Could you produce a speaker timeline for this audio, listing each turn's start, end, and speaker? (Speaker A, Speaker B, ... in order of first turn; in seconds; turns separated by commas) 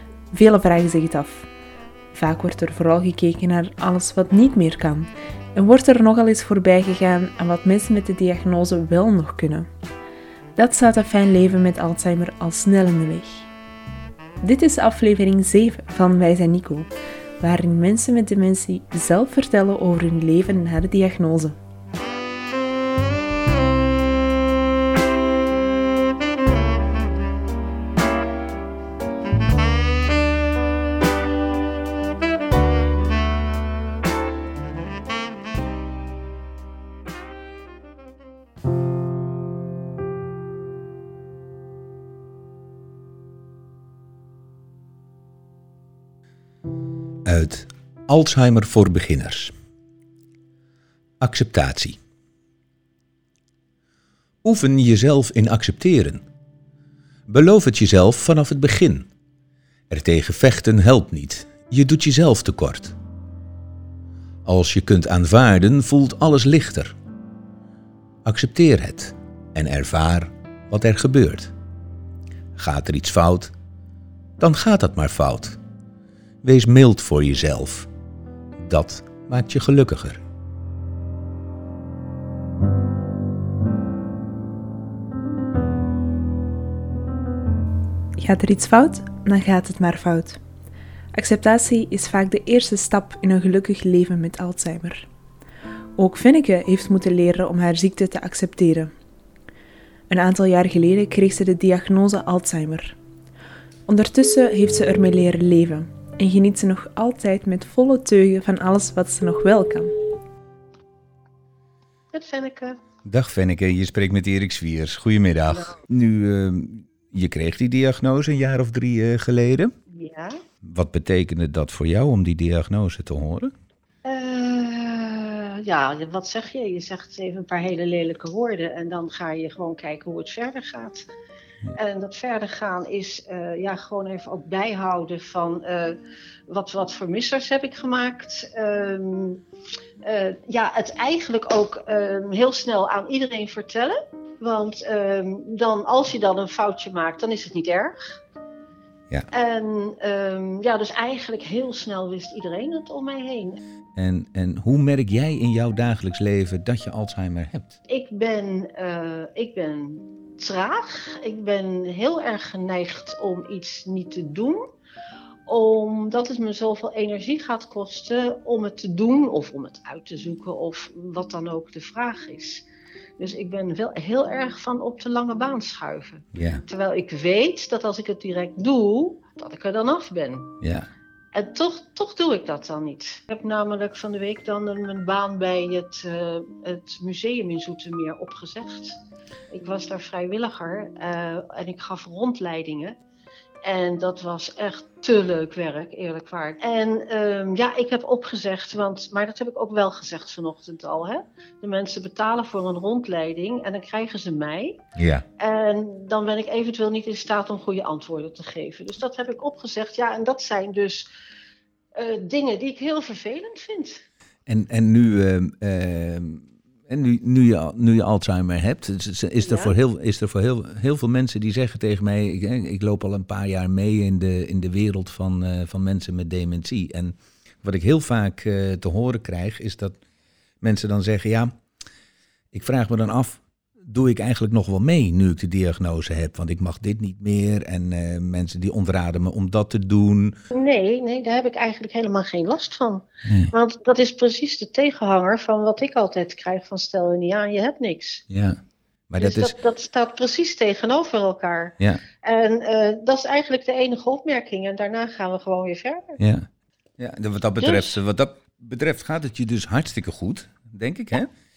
Speaker A: 0.3-1.5, Speaker A: 2.1-9.7, Speaker A: 10.6-13.5, Speaker A: 14.4-16.9, Speaker A: 17.4-21.6, Speaker B: 47.2-49.5, Speaker B: 51.2-52.0, Speaker B: 54.4-56.2, Speaker B: 57.3-59.1, Speaker B: 59.9-63.0, Speaker B: 64.5-67.0, Speaker B: 68.2-71.5, Speaker B: 72.6-73.5, Speaker B: 74.4-75.6, Speaker B: 76.4-77.9, Speaker B: 78.6-80.2, Speaker A: 88.2-90.4, Speaker A: 91.1-95.1, Speaker A: 96.0-98.9, Speaker A: 100.1-103.0, Speaker A: 103.9-109.9, Speaker C: 112.1-112.8, Speaker B: 113.0-119.7, Speaker C: 119.9-120.4, Speaker B: 120.6-123.5, Speaker C: 124.0-131.1, Speaker C: 131.8-136.0, Speaker C: 136.5-139.4, Speaker C: 140.0-148.0, Speaker C: 149.3-153.6, Speaker B: 154.0-157.8, Speaker C: 157.9-164.7, Speaker C: 165.5-172.7, Speaker C: 173.2-180.5, Speaker B: 176.3-176.6, Speaker B: 180.6-180.9, Speaker C: 181.3-189.0, Speaker C: 189.5-192.9, Speaker C: 193.6-204.8, Speaker B: 205.0-205.2, Speaker C: 205.4-211.1, Speaker C: 211.9-214.0, Speaker B: 214.5-230.0, Speaker C: 219.4-219.7, Speaker B: 230.6-231.5, Speaker B: 232.5-240.4, Speaker C: 240.5-248.2, Speaker B: 243.3-243.5, Speaker B: 248.3-249.6, Speaker C: 249.2-256.2, Speaker B: 256.2-261.3, Speaker C: 257.6-258.0